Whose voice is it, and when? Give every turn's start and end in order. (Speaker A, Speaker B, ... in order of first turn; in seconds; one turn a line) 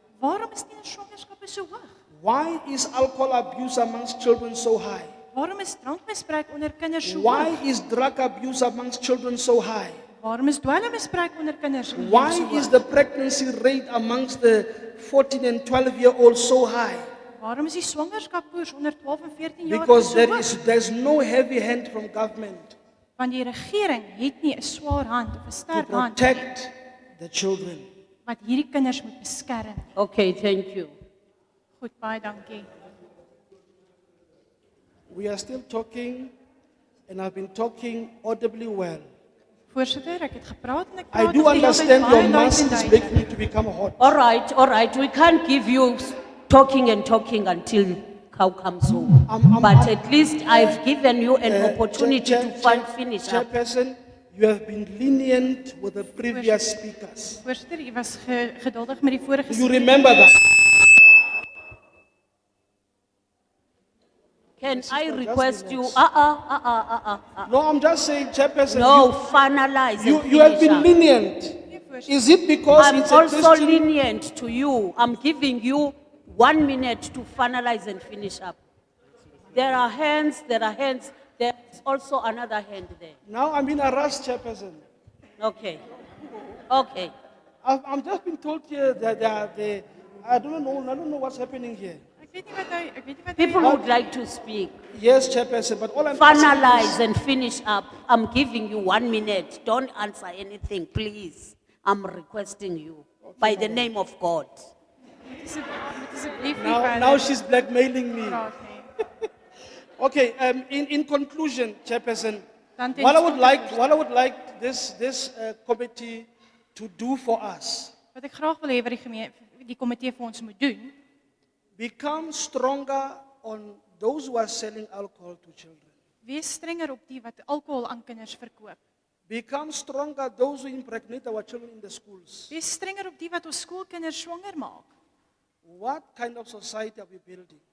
Speaker A: 0.2-1.9
Speaker B: 2.2-5.1
Speaker A: 5.3-7.6
Speaker B: 7.0-9.9
Speaker A: 10.2-12.8
Speaker B: 11.9-17.0
Speaker A: 17.4-20.5
Speaker B: 19.7-22.8
Speaker A: 23.2-26.4
Speaker B: 25.7-27.9
Speaker A: 28.2-29.8
Speaker C: 29.9-30.9
Speaker A: 31.8-32.7
Speaker B: 35.1-36.3
Speaker B: 37.1-39.0
Speaker A: 39.7-43.1
Speaker B: 41.1-44.1
Speaker C: 44.0-53.5
Speaker B: 49.2-50.8
Speaker B: 51.4-57.4
Speaker A: 56.3-56.7
Speaker A: 57.4-60.0
Speaker B: 59.5-60.3
Speaker C: 64.6-67.5
Speaker B: 64.6-66.0
Speaker B: 67.5-69.1
Speaker C: 68.7-70.9
Speaker B: 70.0-73.9
Speaker A: 71.7-72.2
Speaker C: 72.8-78.6
Speaker C: 79.5-83.2
Speaker B: 83.2-84.8
Speaker C: 85.4-85.8
Speaker C: 86.7-87.1
Speaker B: 87.6-92.0
Speaker A: 92.2-93.7
Speaker C: 93.4-94.7
Speaker B: 93.6-93.9
Speaker B: 94.9-97.0
Speaker C: 96.1-104.7
Speaker B: 103.2-103.8
Speaker A: 105.2-107.4
Speaker B: 106.5-108.4
Speaker A: 108.2-108.9
Speaker B: 110.0-112.4
Speaker A: 112.8-114.0
Speaker B: 113.0-117.9
Speaker A: 118.1-120.9
Speaker B: 121.8-125.9
Speaker A: 126.2-128.8
Speaker B: 129.3-132.5
Speaker A: 132.5-134.9
Speaker B: 135.6-137.6